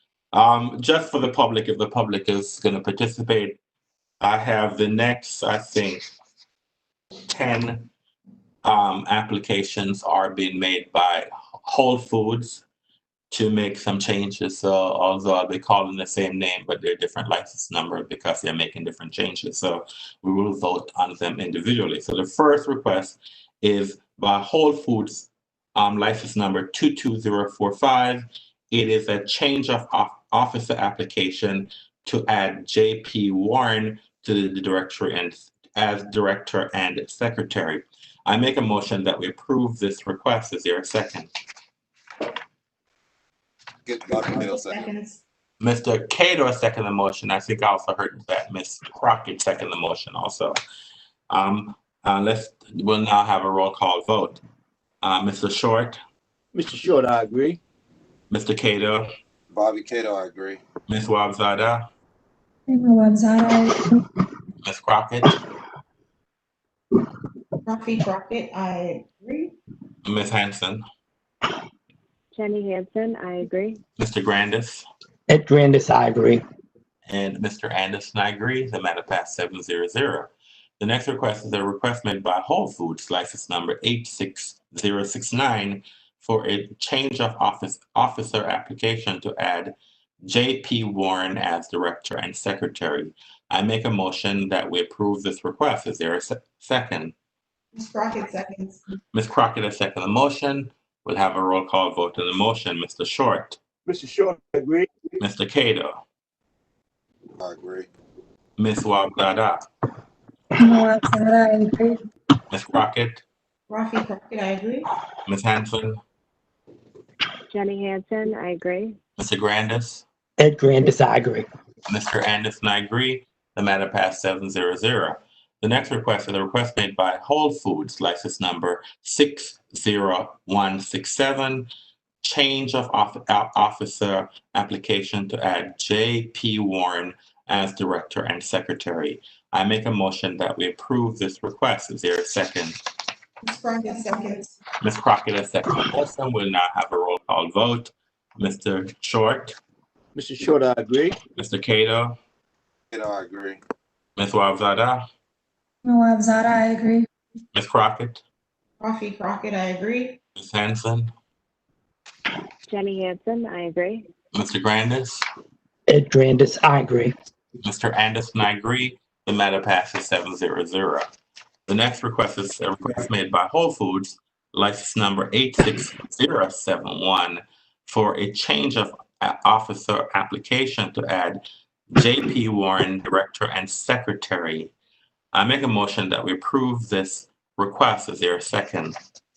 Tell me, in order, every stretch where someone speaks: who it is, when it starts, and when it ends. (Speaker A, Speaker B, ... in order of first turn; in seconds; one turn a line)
Speaker A: 0.3-3.6
Speaker A: 4.2-6.0
Speaker A: 7.3-7.9
Speaker A: 8.6-12.6
Speaker A: 13.3-41.3
Speaker B: 43.8-44.9
Speaker C: 44.1-45.2
Speaker A: 45.6-50.6
Speaker A: 51.3-54.4
Speaker A: 55.0-56.0
Speaker D: 56.5-57.6
Speaker A: 58.3-59.1
Speaker B: 59.5-60.6
Speaker A: 60.9-61.8
Speaker E: 62.7-63.8
Speaker A: 64.6-65.3
Speaker C: 67.6-69.5
Speaker A: 70.0-70.8
Speaker F: 72.3-73.8
Speaker A: 74.0-74.8
Speaker G: 75.3-76.4
Speaker A: 77.0-97.1
Speaker C: 97.7-98.8
Speaker A: 99.1-103.6
Speaker D: 103.8-104.9
Speaker A: 105.2-106.0
Speaker B: 107.4-107.9
Speaker A: 108.6-109.6
Speaker E: 110.6-112.0
Speaker A: 112.5-113.2
Speaker C: 113.7-114.9
Speaker A: 115.2-116.0
Speaker F: 117.5-119.0
Speaker A: 119.2-120.0
Speaker G: 120.4-121.5
Speaker A: 121.9-131.7
Speaker A: 132.2-142.8
Speaker C: 143.4-144.4
Speaker A: 144.8-149.6
Speaker D: 150.2-151.2
Speaker A: 151.3-152.2
Speaker B: 152.9-153.6
Speaker A: 154.2-155.0
Speaker E: 155.8-157.1
Speaker A: 157.5-158.2
Speaker C: 158.8-160.2
Speaker A: 160.3-161.1
Speaker F: 162.7-164.1
Speaker A: 164.3-165.2
Speaker G: 165.9-167.1
Speaker A: 167.6-171.1
Speaker A: 171.7-181.4
Speaker A: 181.9-184.7
Speaker A: 185.3-188.9